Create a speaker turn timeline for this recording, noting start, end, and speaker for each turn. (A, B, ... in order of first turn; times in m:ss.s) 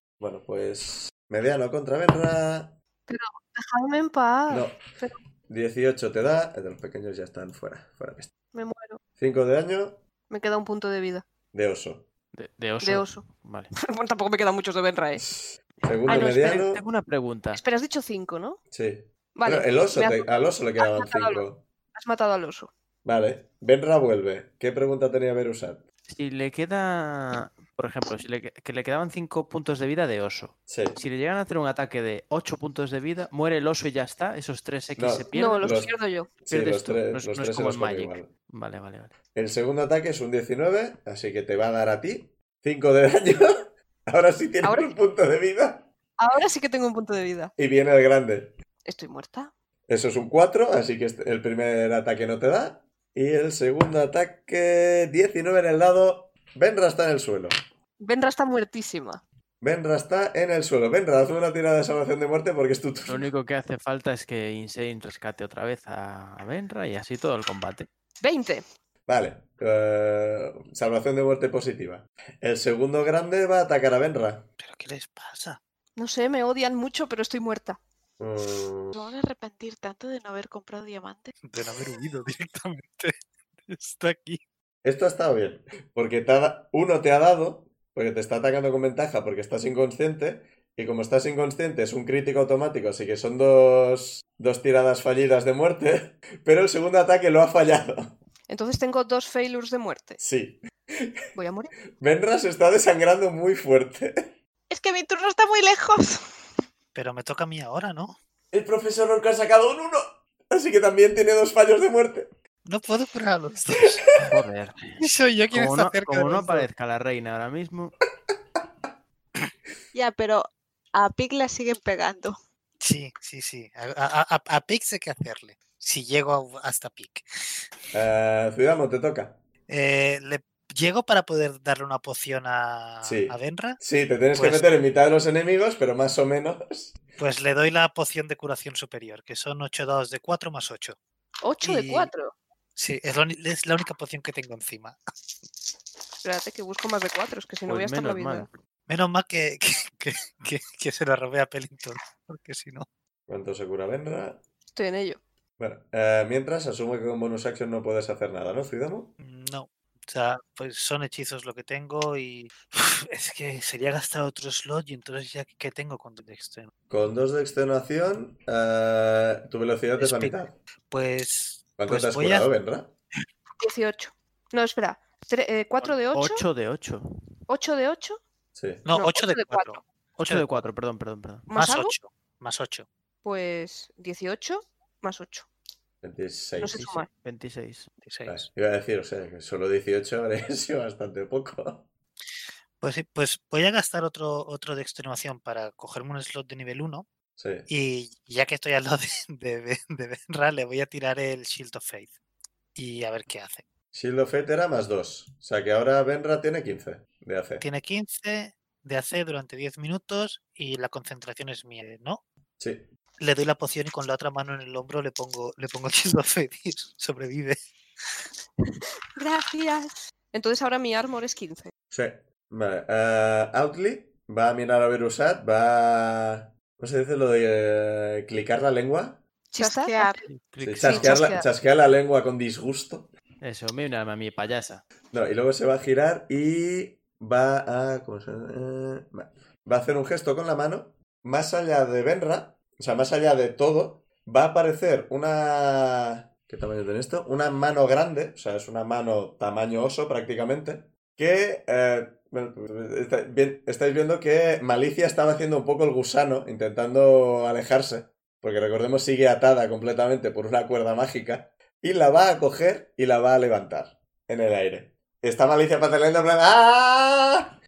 0:00.2-0:02.8 A
0:03.1-0:05.2 B
0:04.5-0:04.8 A
0:05.5-0:08.3 A
0:08.5-0:09.0 B
0:09.2-0:10.0 A
0:10.3-0:11.2 B
0:11.5-0:12.1 A
0:12.3-0:13.7 C
0:12.8-0:13.2 B
0:13.8-0:15.2 B
0:15.2-0:16.8 A
0:15.8-0:17.6 C
0:16.1-0:16.5 B
0:17.5-0:18.6 B
0:18.7-0:21.6 A
0:19.4-0:20.3 B
0:20.8-0:21.4 B
0:21.9-0:22.7 B
0:23.0-0:25.8 A
0:26.1-0:35.7 C
0:30.7-0:31.0 A
0:35.0-0:35.9 A
0:35.3-0:36.3 B
0:36.4-0:38.3 A
0:36.5-0:39.1 C
0:39.3-0:45.9 A
0:44.6-0:44.9 B
0:46.2-0:47.5 B
0:47.6-0:48.6 A
0:48.8-0:49.5 B
0:49.9-0:57.5 A
0:58.0-0:59.2 B
0:59.6-1:03.3 A
1:03.0-1:07.9 C
1:08.2-1:08.6 B
1:09.1-1:14.5 A
1:14.6-1:15.6 D
1:16.0-1:17.8 B
1:18.2-1:19.0 A
1:18.9-1:21.3 E
1:21.5-1:24.4 D
1:24.8-1:38.2 A
1:38.5-1:40.2 B
1:40.2-1:41.2 A
1:41.3-1:41.7 B
1:42.0-1:44.3 A
1:44.7-1:46.3 E
1:46.9-1:48.2 D
1:48.5-1:52.3 A
1:52.6-1:54.0 D
1:54.2-1:57.9 C
1:55.0-1:56.7 D
1:59.9-2:02.4 E
2:02.8-2:07.2 D
2:07.9-2:09.4 A
2:09.7-2:13.8 D
2:13.0-2:17.0 A
2:14.3-2:14.7 D
2:17.2-2:21.0 D
2:21.4-2:22.3 B
2:21.6-2:22.1 D
2:22.8-2:25.0 D
2:26.2-2:28.5 B
2:27.7-2:28.5 C
2:28.9-2:32.8 D
2:33.3-2:34.4 A
2:34.7-2:35.2 B
2:35.6-2:39.1 A
2:39.2-2:46.7 D
2:46.9-2:50.6 A
2:50.0-2:50.4 D
2:50.9-2:52.5 D
2:51.8-2:52.9 A
2:53.6-2:56.4 B
2:55.8-2:57.1 C
2:57.5-2:58.2 B
2:58.5-2:58.8 A
2:58.8-3:00.6 D
2:58.9-2:59.8 B
3:00.2-3:01.5 C
3:01.5-3:01.9 B
3:01.5-3:02.9 D
3:03.2-3:05.5 B
3:06.0-3:06.8 A
3:06.6-3:07.1 B
3:06.7-3:07.9 C
3:08.0-3:08.5 D
3:08.2-3:11.9 A
3:12.8-3:17.1 D
3:17.4-3:17.7 A
3:17.7-3:22.1 D
3:22.7-3:23.6 D
3:23.9-3:27.6 A
3:27.6-3:32.2 D
3:32.6-3:32.9 A
3:33.2-3:37.6 D
3:39.2-3:41.7 B
3:41.9-3:49.2 A
3:49.5-3:50.2 B
3:49.6-3:50.2 E
3:50.3-3:51.1 C
3:50.6-3:53.1 A
3:50.8-3:51.5 B
3:53.4-3:54.8 C
3:55.1-4:27.5 A